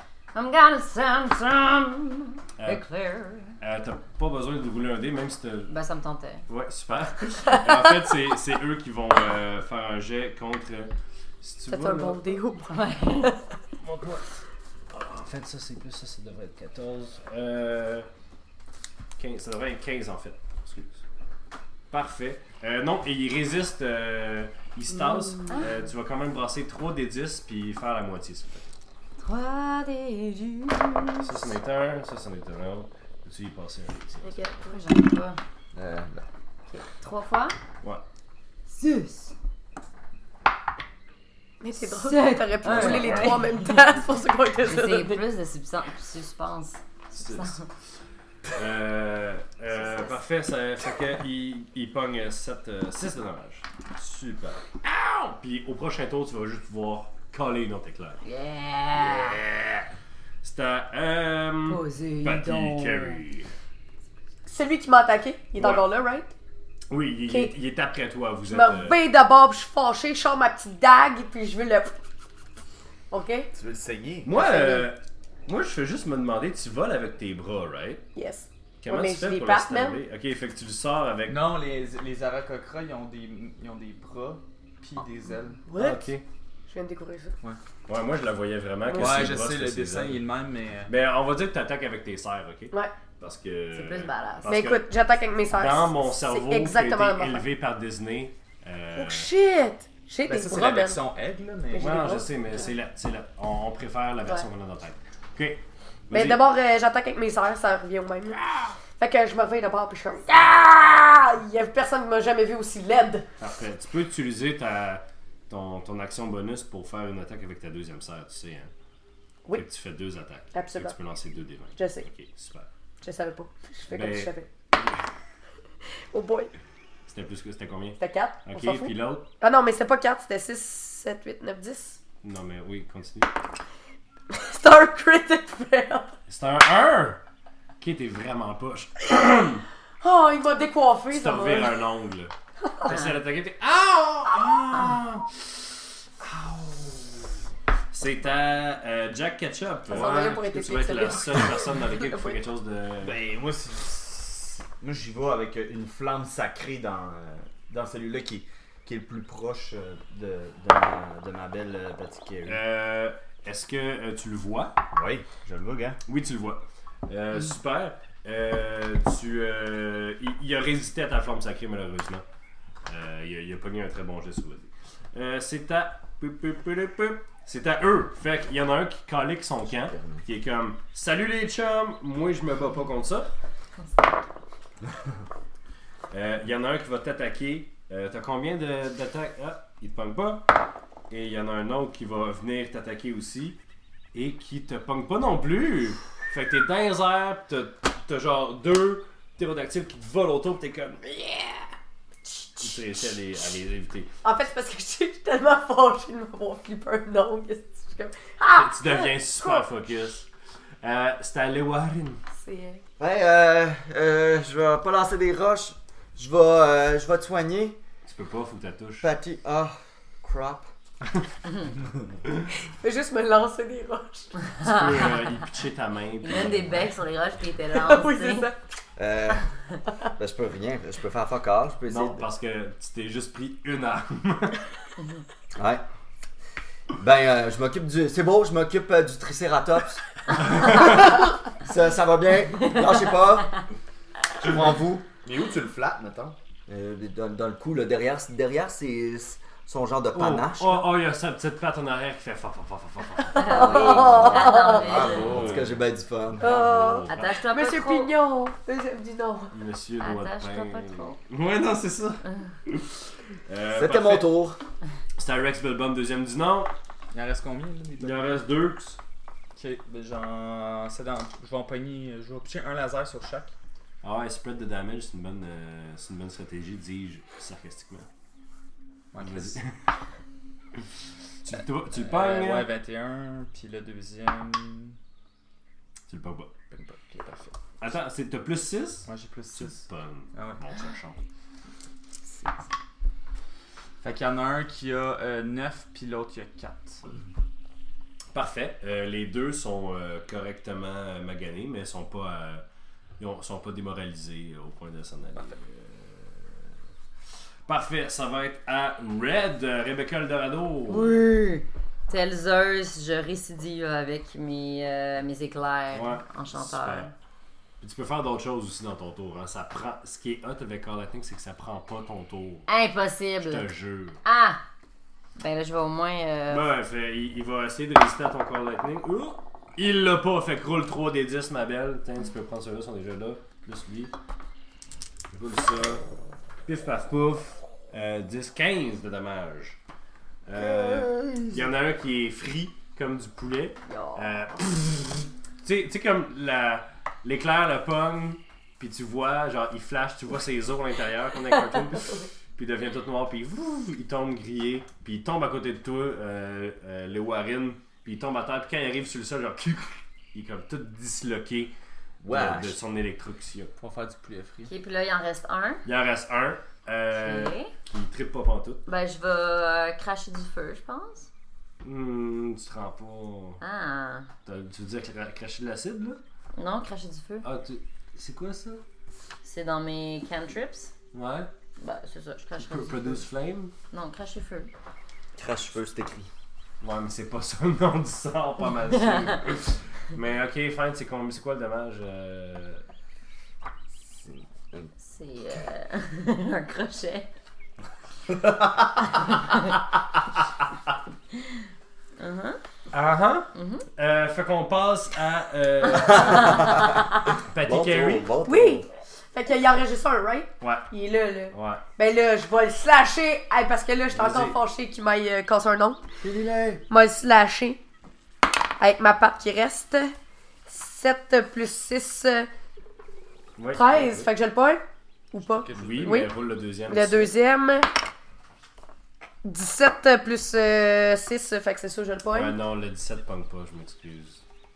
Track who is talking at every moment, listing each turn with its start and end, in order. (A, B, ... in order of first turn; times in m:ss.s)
0:00.3-0:03.6 A
0:02.6-0:02.8 B
0:03.6-0:05.7 B
0:05.7-0:06.4 A
0:06.5-0:12.4 B
0:11.7-0:13.4 C
0:12.6-0:13.4 A
0:13.8-0:14.2 B
0:14.9-0:18.1 B
0:19.2-0:21.0 B
0:21.9-0:28.7 B
0:29.2-0:31.5 A
0:31.2-0:34.3 B
0:34.2-0:34.8 C
0:34.6-0:35.4 A
0:35.7-0:36.2 D
0:36.7-0:37.6 A
0:38.7-0:39.3 A
0:41.6-0:45.2 C
0:41.8-0:43.8 A
0:42.6-0:43.4 B
0:44.6-0:47.7 A
0:47.2-0:47.6 B
0:48.5-0:58.2 B
0:49.7-0:50.1 A
0:58.2-0:59.4 A
0:58.9-0:59.9 B
1:00.4-1:03.5 B
1:01.6-1:03.2 A
1:04.5-1:06.3 C
1:05.6-1:05.8 B
1:06.9-1:09.0 B
1:07.2-1:07.5 C
1:08.5-1:12.0 C
1:13.1-1:13.5 C
1:13.5-1:14.3 E
1:14.2-1:18.0 B
1:14.3-1:14.9 C
1:18.1-1:20.0 C
1:18.8-1:21.5 B
1:21.3-1:25.6 F
1:25.7-1:26.1 C
1:25.7-1:26.2 B
1:26.7-1:27.4 C
1:27.9-1:30.2 B
1:28.9-1:29.2 C
1:28.9-1:30.9 F
1:30.9-1:34.8 B
1:33.7-1:34.5 A
1:34.4-1:37.4 C
1:35.5-1:39.3 B
1:38.9-1:41.0 C
1:40.3-1:42.0 F
1:41.7-1:42.3 C
1:41.8-1:46.4 B
1:46.1-1:48.4 C
1:48.4-1:48.7 B
1:49.0-1:53.2 C
1:53.4-1:58.7 B
1:59.5-2:02.6 B
2:00.5-2:00.9 C
2:01.8-2:02.1 C
2:03.0-2:04.5 C
2:03.9-2:05.0 B
2:06.1-2:06.5 C
2:07.1-2:09.3 B
2:08.0-2:12.0 C
2:12.2-2:13.3 B
2:14.3-2:16.2 C
2:16.3-2:17.2 B
2:17.8-2:19.6 B
2:20.0-2:21.8 C
2:21.1-2:27.3 B
2:22.9-2:23.2 A
2:27.9-2:33.2 B
2:29.9-2:32.3 C
2:33.0-2:42.6 E
2:42.4-2:44.8 B
2:44.9-2:46.0 E
2:46.1-2:52.2 B
2:52.8-3:03.3 B
2:59.9-3:00.2 D
3:06.1-3:10.5 B
3:11.1-3:13.6 B
3:14.1-3:21.7 B
3:22.6-3:24.1 B
3:24.2-3:29.6 C
3:28.5-3:30.3 B
3:30.8-3:32.2 B
3:32.3-3:32.8 C
3:33.0-3:37.8 D
3:38.0-3:39.1 B
3:39.0-3:40.7 D
3:42.7-3:44.3 C
3:44.6-3:46.9 B
3:44.6-3:45.1 A
3:46.2-3:48.5 A
3:47.7-3:48.6 C
3:49.0-3:49.4 D
3:50.2-3:52.2 D
3:51.9-3:54.6 B
3:55.5-3:55.8 D
3:57.0-4:03.5 D
4:04.4-4:06.4 E
4:06.7-4:10.8 D
4:10.1-4:14.3 B
4:13.4-4:14.9 C
4:13.4-4:15.4 A
4:13.5-4:16.5 D
4:14.9-4:15.2 E
4:15.0-4:15.8 B
4:16.4-4:17.4 B
4:16.4-4:19.5 C
4:17.1-4:18.1 A
4:19.5-4:24.5 B
4:20.0-4:21.2 A
4:22.2-4:22.5 A
4:23.7-4:24.6 D
4:25.2-4:26.7 B
4:27.1-4:28.4 F
4:28.0-4:29.0 B
4:29.6-4:33.5 F
4:34.0-4:38.1 B
4:39.1-4:39.6 F
4:39.2-4:39.8 B
4:41.4-4:42.7 B
4:41.9-4:45.0 F
4:46.1-4:46.5 B
4:46.7-4:47.6 F
4:47.8-4:51.2 B
4:49.0-4:50.6 F
4:54.0-4:57.0 F
4:58.3-5:02.6 B
5:03.2-5:06.6 B
5:07.7-5:11.2 B
5:10.9-5:17.1 A
5:15.9-5:17.1 B
5:17.8-5:22.7 B
5:22.7-5:23.7 A
5:23.4-5:24.2 B
5:24.2-5:24.6 A
5:25.4-5:26.7 A
5:26.5-5:34.1 B
5:35.3-5:36.0 B
5:36.6-5:39.8 B
5:40.4-6:01.7 B
5:40.8-5:41.5 D
5:43.9-5:44.4 A
6:02.2-6:02.8 D
6:02.3-6:03.7 B
6:03.8-6:04.7 F
6:04.7-6:05.8 A
6:05.8-6:08.8 B
6:07.1-6:07.7 A
6:08.8-6:11.3 A
6:11.8-6:13.6 B
6:13.6-6:14.3 A
6:14.4-6:16.2 B
6:16.6-6:17.4 A
6:17.4-6:18.8 B
6:19.4-6:20.9 A
6:21.1-6:21.5 B
6:21.8-6:23.2 A
6:22.6-6:23.7 B
6:23.9-6:24.7 A
6:25.4-6:26.3 D
6:26.8-6:32.8 B
6:34.2-6:34.9 D
6:35.0-6:37.3 A
6:42.2-6:42.6 A
6:42.9-6:46.8 B
6:43.5-6:43.9 A
6:46.3-6:46.7 D
6:47.4-6:48.3 B
6:47.6-6:48.9 D
6:48.4-6:56.0 C
6:50.6-6:50.9 B
6:51.5-6:51.8 B
6:54.1-6:54.6 B
6:56.2-6:56.8 D
6:56.9-6:57.8 C
6:58.8-7:00.1 C
7:00.7-7:02.5 C
7:03.6-7:04.3 B
7:03.7-7:06.3 C
7:05.5-7:06.3 F
7:05.7-7:07.3 B
7:06.9-7:07.9 C
7:09.4-7:12.5 C
7:12.3-7:14.4 B